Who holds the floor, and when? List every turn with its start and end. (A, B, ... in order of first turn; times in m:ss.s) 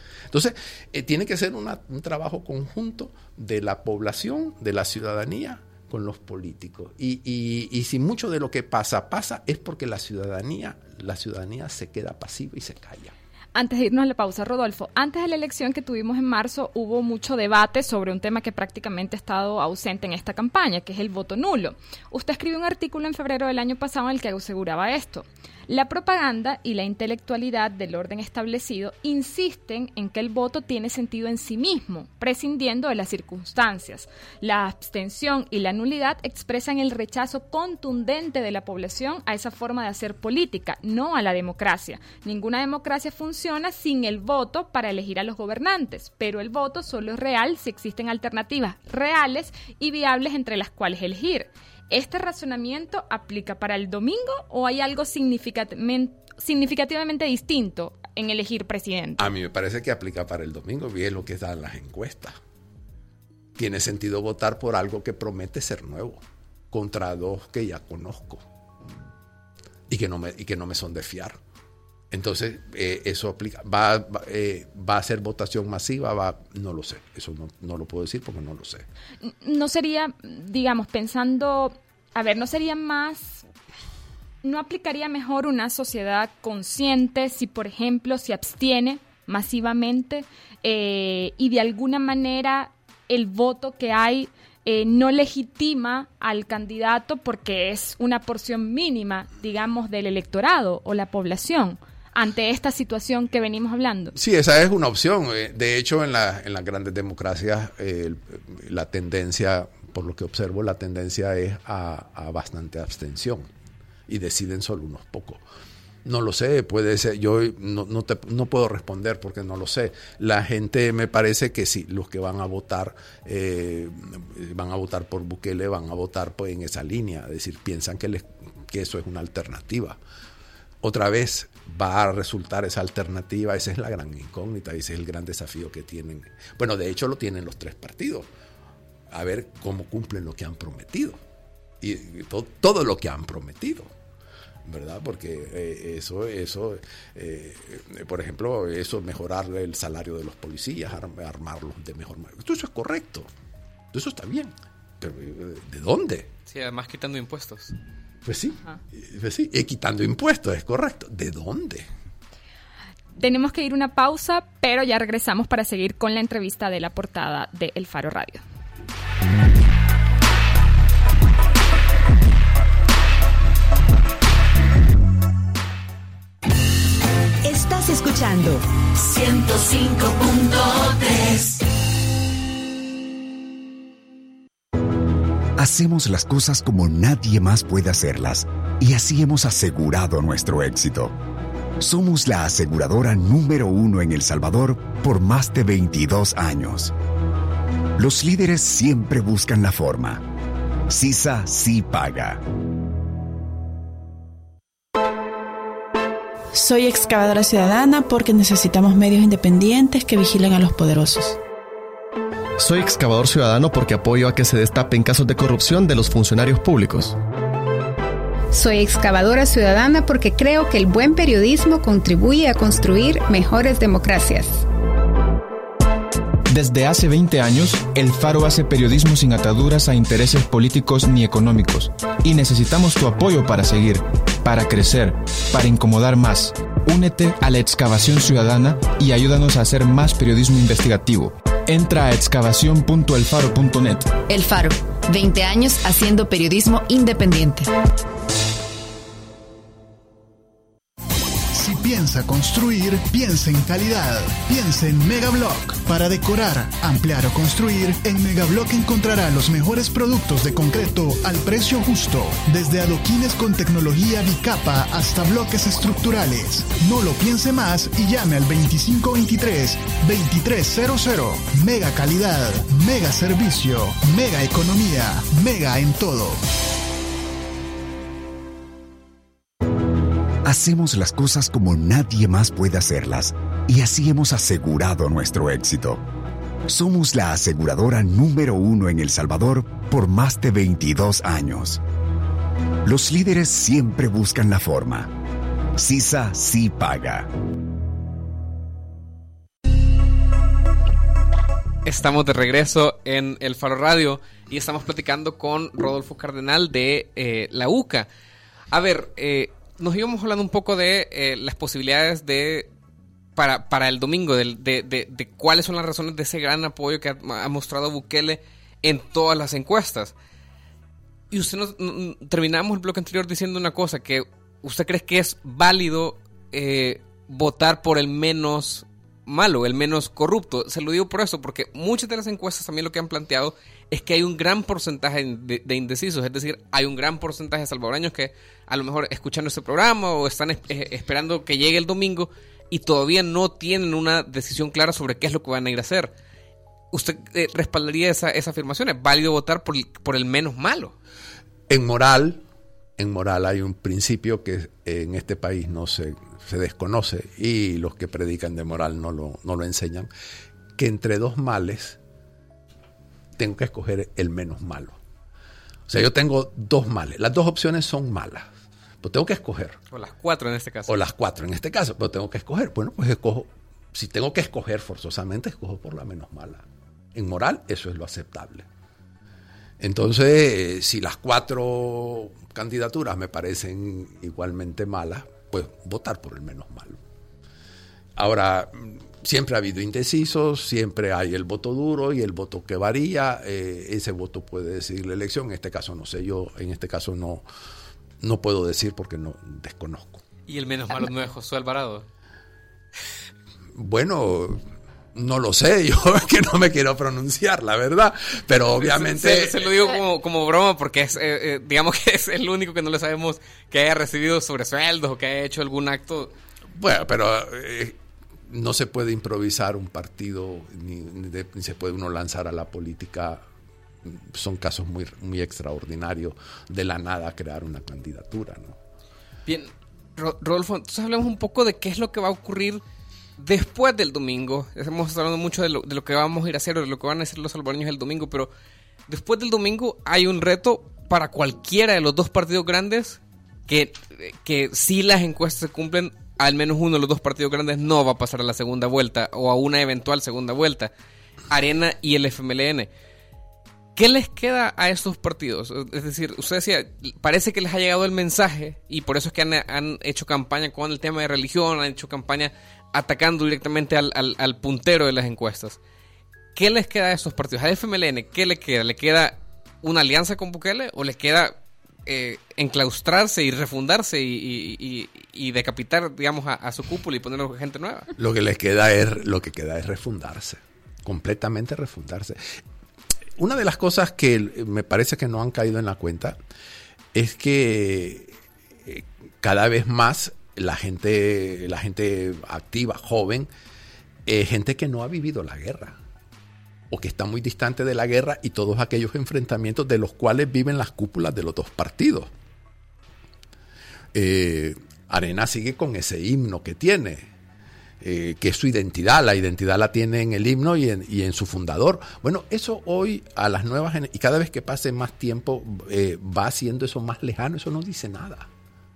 0:00.3-0:13.2 A
0:13.6-0:59.2 B
0:59.2-1:02.4 A
1:03.6-1:08.4 A
1:09.9-1:11.4 A
1:12.1-1:18.9 A
1:19.2-1:23.4 B
1:24.4-1:44.2 B
1:44.2-1:53.5 A
1:54.1-1:55.4 A
1:56.0-2:10.0 A
2:10.8-2:18.3 A
2:19.1-2:21.2 A
2:21.8-2:23.9 A
2:24.6-2:33.3 A
2:33.9-2:36.3 A
2:36.5-2:37.7 C
2:38.2-2:41.9 A
2:43.2-2:48.4 B
2:57.4-3:01.6 D
3:05.6-3:11.2 E
3:11.8-3:16.9 E
3:18.0-3:20.3 E
3:20.9-3:22.4 E
3:26.5-3:31.4 F
3:32.6-3:37.2 G
3:38.5-3:44.7 H
3:46.5-4:04.2 I
4:04.3-4:07.7 D
4:11.5-4:36.4 J
4:40.4-4:46.0 E
4:46.7-4:51.8 E
4:52.8-4:55.1 E
4:55.8-4:57.3 E
5:01.8-5:08.1 C
5:08.7-5:12.7 C
5:13.4-5:20.1 C
5:21.3-5:46.1 C
5:46.9-5:51.0 C
5:51.7-5:52.4 A
5:53.0-6:00.1 A
6:00.8-6:02.0 A
6:03.4-6:05.0 A
6:05.9-6:08.5 A
6:09.0-6:09.8 A
6:09.9-6:11.0 C
6:10.9-6:18.7 A
6:19.8-6:27.0 A
6:28.2-6:37.4 A
6:38.2-6:40.2 A
6:40.5-6:42.1 C
6:43.8-6:44.6 A
6:45.1-6:49.8 A
6:48.7-6:56.3 C
6:56.8-7:03.4 A
7:04.0-7:08.8 A
7:09.5-7:12.8 C
7:13.4-7:18.5 C
7:19.1-7:30.9 C
7:31.5-7:32.9 C
7:34.0-7:45.8 C
7:46.6-7:58.1 C
7:58.2-8:02.4 A
8:03.4-8:06.4 A
8:07.1-8:08.3 A
8:08.9-8:13.5 A
8:14.3-8:16.0 A
8:16.9-8:22.3 A
8:24.1-8:27.3 A
8:28.0-8:38.5 A